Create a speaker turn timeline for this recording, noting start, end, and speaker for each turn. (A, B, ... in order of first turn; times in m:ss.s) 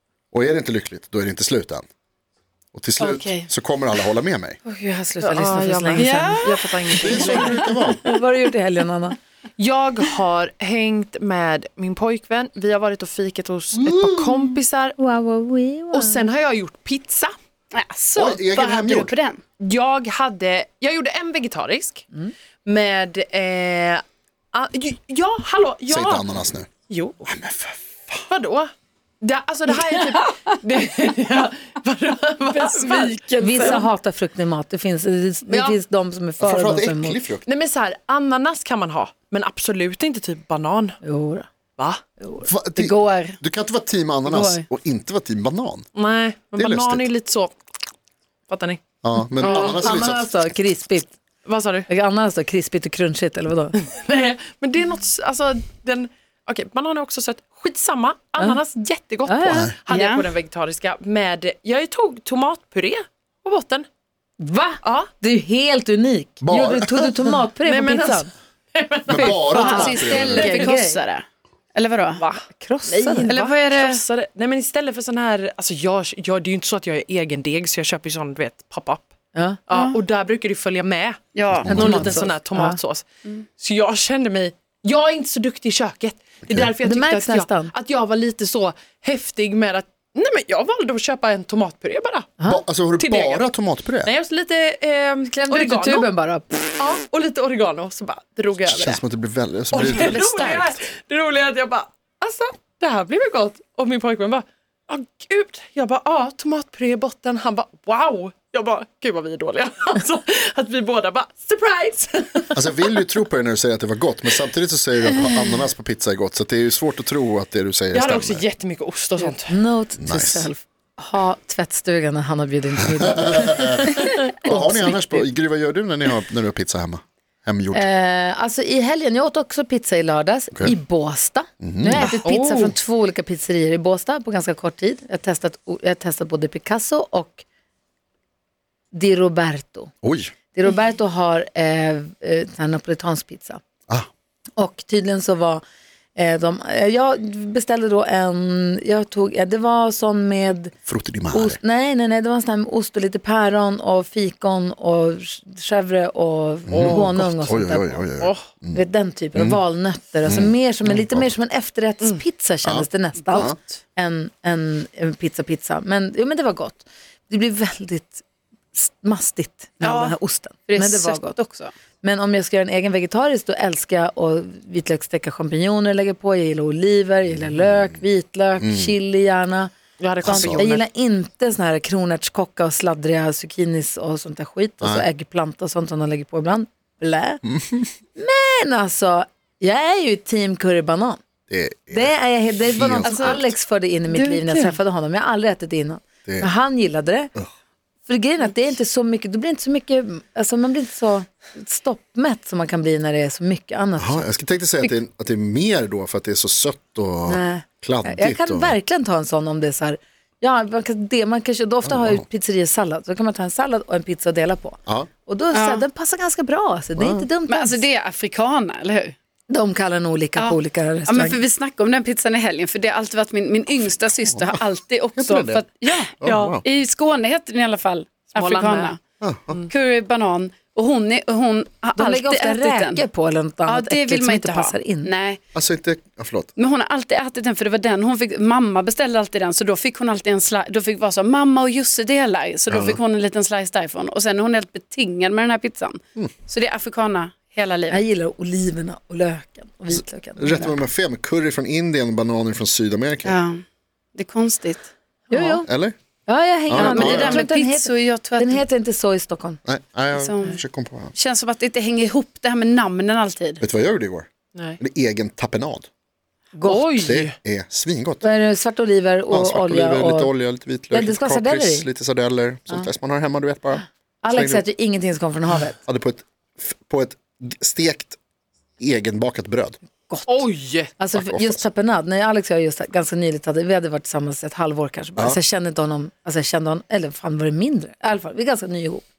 0:00.3-0:01.8 A
0:02.7-0:04.6 A
0:03.0-0:03.5 B
0:04.6-0:06.4 C
0:05.2-0:07.6 D
0:06.0-0:06.7 B
0:07.0-0:08.1 A
0:07.0-0:09.2 C
0:09.6-0:15.0 D
0:15.0-0:16.3 C
0:15.9-0:17.3 D
0:17.7-0:19.4 B
0:18.2-0:19.1 A
0:19.6-0:22.1 D
0:22.6-0:26.3 D
0:25.9-0:26.7 A
0:26.9-0:27.2 D
0:27.2-0:28.3 A
0:28.3-0:33.8 D
0:32.5-0:33.8 B
0:33.4-0:37.2 C
0:35.5-0:35.8 D
0:36.4-0:37.4 A
0:37.5-0:41.0 D
0:41.0-0:41.5 C
0:42.2-0:42.5 C
0:42.4-0:45.9 A
0:42.8-0:43.4 B
0:44.3-0:44.6 B
0:46.0-0:47.6 D
0:46.6-0:47.1 A
0:48.5-0:48.8 D
0:49.0-0:50.6 A
0:49.4-0:50.0 D
0:49.4-0:51.2 C
0:51.4-0:51.9 D
0:51.9-0:53.8 C
0:54.0-1:03.9 D
0:59.3-0:59.7 C
0:59.5-0:59.7 A
0:59.9-1:00.3 B
1:04.4-1:08.3 C
1:04.8-1:05.1 D
1:06.4-1:07.1 A
1:07.6-1:10.7 D
1:09.1-1:10.5 A
1:09.2-1:11.0 C
1:09.6-1:12.2 B
1:12.2-1:19.1 D
1:12.5-1:13.3 C
1:13.3-1:14.0 B
1:19.3-1:19.6 C
1:19.7-1:21.2 D
1:19.7-1:20.0 B
1:21.4-1:21.8 B
1:21.5-1:22.1 A
1:21.7-1:22.8 C
1:21.7-1:32.3 D
1:26.8-1:27.7 C
1:32.4-1:34.1 A
1:33.0-1:33.5 D
1:34.0-1:36.1 D
1:35.3-1:36.8 C
1:36.8-1:39.0 D
1:38.6-1:40.7 A
1:39.7-1:52.8 D
1:39.8-1:40.7 B
1:52.5-1:58.4 A
1:57.9-1:59.6 D
1:59.5-2:05.3 C
2:00.0-2:00.5 A
2:02.9-2:07.8 A
2:07.7-2:17.4 C
2:11.6-2:12.2 A
2:12.0-2:12.8 D
2:18.9-2:19.9 C
2:20.0-2:20.3 A
2:20.5-2:23.6 C
2:24.6-2:25.6 C
2:26.2-2:30.8 C
2:30.9-2:31.6 A
2:31.3-2:38.0 C
2:36.7-2:38.8 A
2:38.2-2:38.5 D
2:38.7-2:51.4 C
2:39.4-2:39.6 A
2:40.3-2:41.3 A
2:42.6-2:43.6 A
2:49.8-2:50.2 B
2:50.7-2:51.7 B
2:52.0-2:59.7 C
2:58.6-2:58.9 A
3:00.0-3:00.8 D
3:00.2-3:07.4 C
3:00.3-3:00.6 A
3:07.4-3:07.9 A
3:08.2-3:11.2 C
3:11.5-3:13.5 A
3:11.9-3:17.3 C
3:13.0-3:13.4 B
3:14.1-3:14.8 B
3:18.1-3:24.3 C
3:24.0-3:28.8 A
3:27.3-3:37.8 C
3:31.8-3:32.2 A
3:35.5-3:35.8 B
3:37.0-3:37.3 A
3:37.5-3:39.2 B
3:39.5-3:41.4 C
3:40.4-3:49.0 B
3:44.2-3:44.6 A
3:45.2-3:46.6 A
3:46.3-3:46.5 D
3:48.4-3:48.9 D
3:49.2-3:49.6 A
3:49.7-3:53.0 B
3:52.0-3:55.1 C
3:53.7-3:55.4 B
3:55.6-3:56.5 A
3:56.6-4:08.0 B
4:02.7-4:03.0 A
4:07.9-4:10.7 C
4:09.9-4:13.4 A
4:13.2-4:13.6 B
4:14.2-4:14.9 B
4:15.3-4:15.7 C
4:15.6-4:16.0 A
4:16.3-4:19.6 C
4:16.7-4:17.5 A
4:16.8-4:18.6 B
4:19.6-4:21.1 A
4:20.2-4:20.6 B
4:21.2-4:23.6 B
4:23.6-4:25.9 A
4:26.6-4:26.9 C
4:26.6-4:27.4 D
4:26.9-4:28.3 A
4:28.2-4:30.3 C
4:29.3-4:34.6 A
4:30.9-4:31.9 C
4:34.2-4:35.8 C
4:35.9-4:38.2 A
4:38.8-4:39.8 A
4:40.1-4:49.0 C
4:40.3-4:40.9 D
4:41.1-4:41.7 A